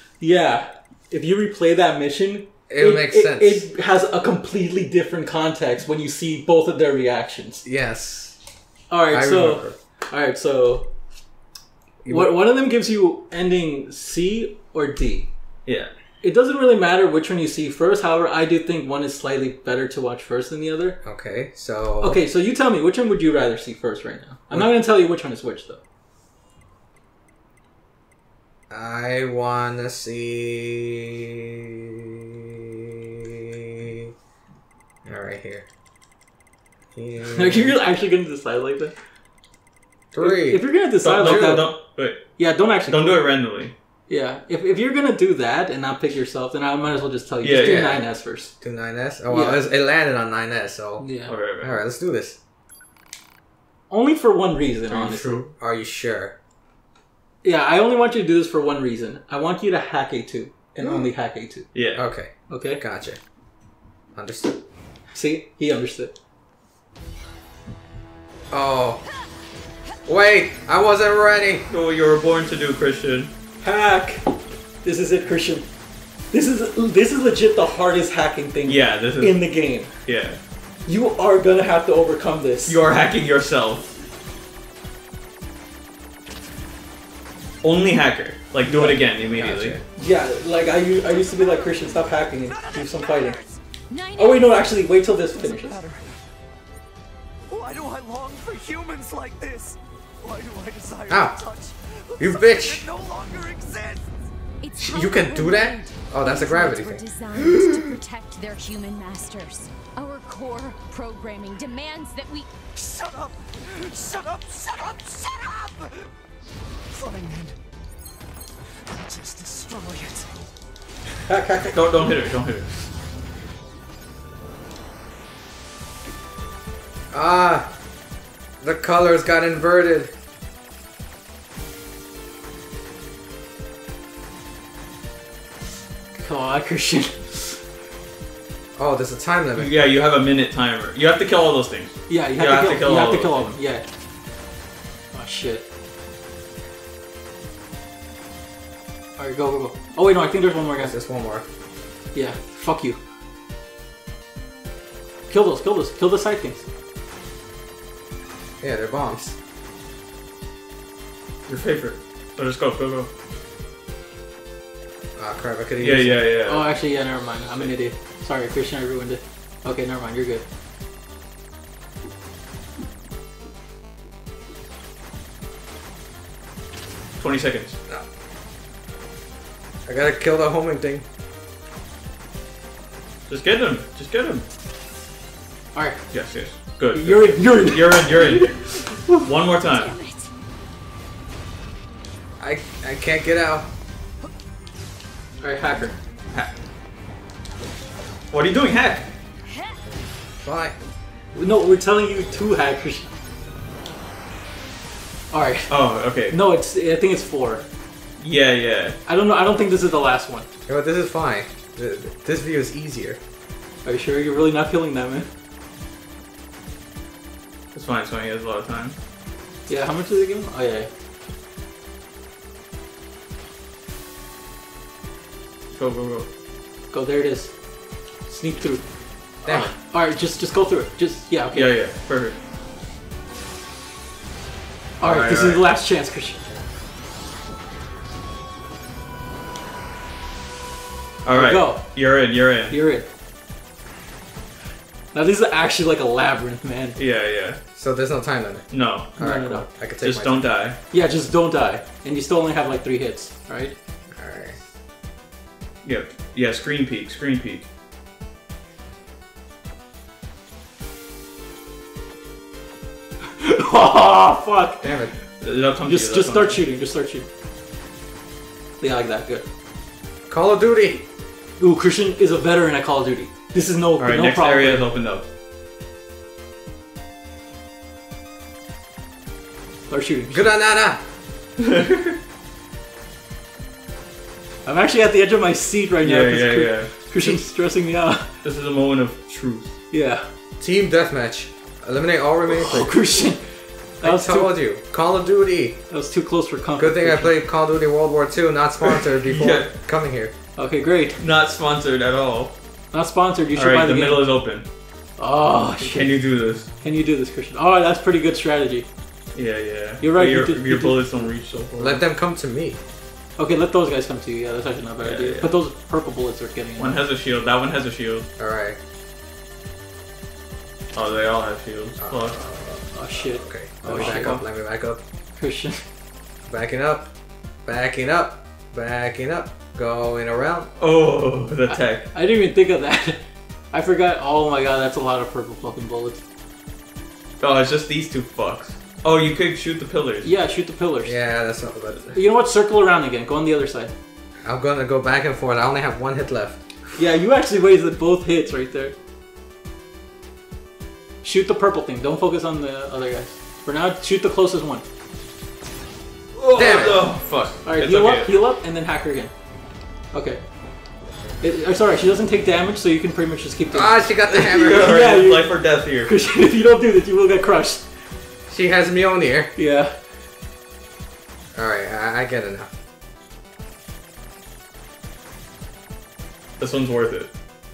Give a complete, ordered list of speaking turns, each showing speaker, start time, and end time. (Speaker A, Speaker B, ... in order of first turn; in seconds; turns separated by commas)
Speaker A: 0.2-7.6, Speaker B: 2.7-3.7, Speaker B: 7.6-8.4, Speaker A: 8.9-10.9, Speaker B: 9.1-9.8, Speaker B: 12.0-12.3, Speaker A: 12.1-15.3, Speaker C: 15.7-15.9, Speaker A: 16.2-21.0, Speaker B: 21.0-22.2, Speaker A: 22.0-25.8, Speaker B: 28.7-34.1, Speaker B: 35.0-35.7, Speaker B: 36.9-37.7, Speaker A: 37.2-38.9, Speaker B: 40.1-40.6, Speaker A: 40.2-41.8, Speaker C: 41.0-42.3, Speaker B: 41.2-41.6, Speaker A: 42.4-43.2, Speaker C: 42.9-43.7, Speaker A: 44.1-48.5, Speaker C: 47.4-48.0, Speaker B: 48.6-51.1, Speaker A: 49.3-49.7, Speaker A: 51.0-51.3, Speaker C: 51.3-51.8, Speaker B: 51.6-52.4, Speaker A: 53.9-55.5, Speaker B: 54.9-56.4, Speaker A: 57.4-61.7, Speaker B: 60.8-61.1, Speaker C: 61.7-62.0, Speaker B: 61.9-63.2, Speaker A: 62.5-62.8, Speaker B: 64.1-64.6, Speaker A: 65.1-66.2, Speaker B: 68.5-69.0, Speaker B: 70.0-71.7, Speaker C: 71.7-73.3, Speaker A: 73.6-74.2, Speaker A: 74.8-75.7, Speaker A: 76.3-79.9, Speaker C: 78.6-79.4, Speaker C: 80.0-80.4, Speaker A: 80.8-82.8, Speaker C: 82.7-83.9, Speaker C: 87.6-89.8, Speaker A: 88.6-89.0, Speaker B: 89.3-89.8, Speaker A: 90.0-93.4, Speaker D: 91.1-91.9, Speaker D: 92.5-93.6, Speaker E: 93.9-94.6, Speaker A: 94.2-95.8, Speaker D: 95.4-96.2, Speaker D: 97.5-104.1, Speaker B: 101.1-101.4, Speaker B: 102.2-102.9, Speaker E: 104.6-112.5, Speaker B: 104.8-107.7, Speaker D: 112.7-116.1, Speaker D: 116.9-117.6, Speaker D: 118.7-120.3, Speaker A: 121.3-121.8, Speaker C: 121.6-122.7, Speaker B: 127.1-127.7, Speaker B: 128.6-130.1, Speaker A: 136.2-137.6, Speaker B: 138.8-139.7, Speaker C: 139.6-143.5, Speaker A: 142.1-143.8, Speaker A: 145.1-145.7, Speaker A: 149.2-151.0, Speaker B: 150.8-151.4, Speaker A: 152.1-153.0, Speaker A: 155.3-156.7, Speaker B: 158.6-159.4, Speaker C: 161.5-163.1, Speaker B: 165.2-166.2, Speaker C: 165.8-166.7, Speaker A: 166.5-170.4, Speaker C: 177.2-177.8, Speaker B: 179.9-181.1, Speaker C: 183.3-184.4, Speaker A: 185.7-186.0, Speaker C: 186.1-189.9, Speaker A: 186.9-189.2, Speaker E: 189.7-190.3, Speaker B: 192.4-193.7, Speaker A: 195.4-196.0, Speaker C: 198.3-199.1, Speaker B: 200.4-200.8, Speaker A: 201.3-203.1, Speaker A: 205.3-205.7, Speaker C: 205.7-206.4, Speaker A: 206.3-207.6, Speaker C: 208.2-209.0, Speaker A: 209.1-210.5, Speaker B: 210.7-213.2, Speaker A: 213.8-215.3, Speaker C: 217.7-219.0, Speaker A: 219.7-220.9, Speaker C: 225.7-226.3, Speaker A: 226.9-227.5, Speaker A: 228.3-228.8, Speaker B: 229.4-229.7, Speaker A: 229.4-231.7, Speaker C: 231.5-232.3, Speaker C: 235.0-235.6, Speaker A: 235.0-236.4, Speaker C: 241.2-242.8, Speaker A: 241.3-241.8, Speaker A: 242.7-243.1, Speaker A: 245.1-247.0, Speaker C: 247.0-247.6, Speaker B: 247.8-250.5, Speaker C: 248.7-249.2, Speaker A: 249.2-249.7, Speaker C: 250.0-250.8, Speaker A: 250.9-253.8, Speaker B: 254.1-254.6, Speaker C: 255.8-257.6, Speaker A: 263.4-264.9, Speaker B: 264.8-265.1, Speaker C: 265.4-266.6, Speaker A: 265.9-267.3, Speaker A: 268.8-269.4, Speaker B: 270.3-271.1, Speaker A: 271.6-274.9, Speaker C: 274.0-275.2, Speaker A: 279.9-280.5, Speaker B: 280.3-281.0, Speaker C: 281.6-282.2, Speaker A: 284.6-288.3, Speaker C: 286.0-286.9, Speaker C: 288.4-289.8, Speaker A: 289.9-290.3, Speaker B: 290.6-293.0, Speaker A: 292.5-293.4, Speaker A: 294.0-294.6, Speaker B: 294.0-295.8, Speaker A: 295.9-297.3, Speaker B: 296.8-300.3, Speaker C: 299.2-299.7, Speaker A: 300.6-301.2, Speaker C: 301.2-302.5, Speaker A: 302.9-304.2, Speaker C: 303.5-304.7, Speaker A: 305.2-306.1, Speaker C: 305.8-306.7, Speaker A: 306.8-308.9, Speaker C: 309.3-312.0, Speaker A: 310.0-311.0, Speaker B: 311.7-312.8, Speaker A: 313.4-317.0, Speaker C: 315.0-315.5, Speaker C: 316.8-318.3, Speaker B: 318.4-318.8, Speaker C: 320.9-322.4, Speaker B: 322.0-325.0, Speaker A: 322.9-324.4, Speaker C: 323.9-324.4, Speaker A: 325.4-325.8, Speaker B: 326.5-327.1, Speaker B: 327.6-330.7, Speaker C: 330.8-332.1, Speaker A: 331.7-336.2, Speaker C: 337.4-340.3, Speaker A: 340.2-341.2, Speaker B: 341.0-342.2, Speaker A: 342.1-343.9, Speaker B: 344.4-346.6, Speaker A: 347.0-348.9, Speaker A: 351.2-354.8, Speaker C: 356.3-358.3, Speaker B: 356.5-357.1, Speaker A: 357.6-359.3, Speaker A: 360.1-360.4, Speaker A: 361.4-367.9, Speaker B: 363.7-365.0, Speaker C: 364.4-366.1, Speaker B: 368.5-369.5, Speaker A: 369.6-369.9, Speaker B: 371.5-372.7, Speaker C: 376.6-377.3